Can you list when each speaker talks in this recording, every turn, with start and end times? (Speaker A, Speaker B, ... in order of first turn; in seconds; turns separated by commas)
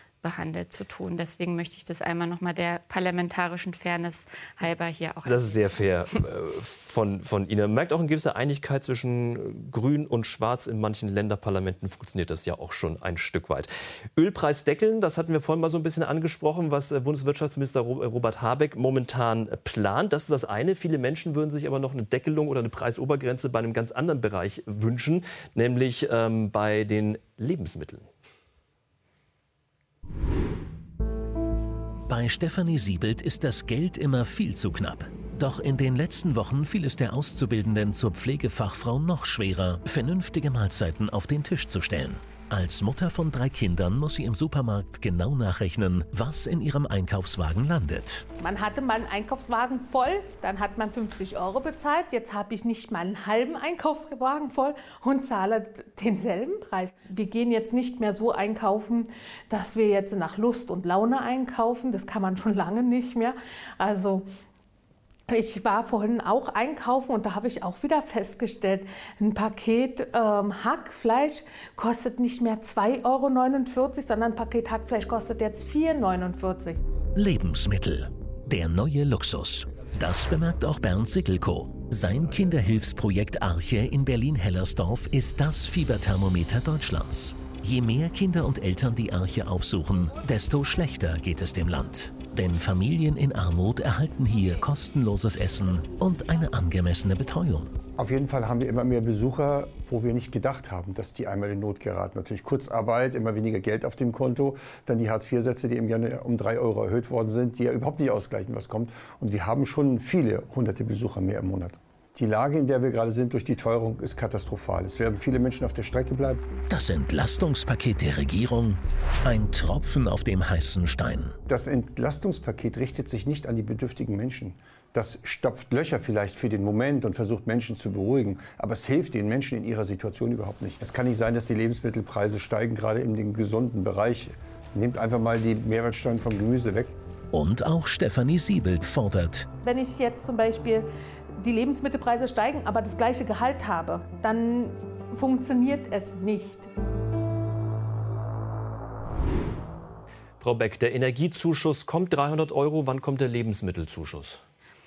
Speaker A: 0.2-5.9, Speaker B: 5.3-28.1, Speaker C: 32.1-48.3, Speaker D: 48.4-64.3, Speaker D: 65.3-76.8, Speaker C: 77.2-97.8, Speaker E: 98.0-116.6, Speaker C: 116.7-121.4, Speaker E: 121.5-136.9, Speaker C: 137.3-139.5, Speaker D: 139.6-146.7, Speaker B: 150.4-154.4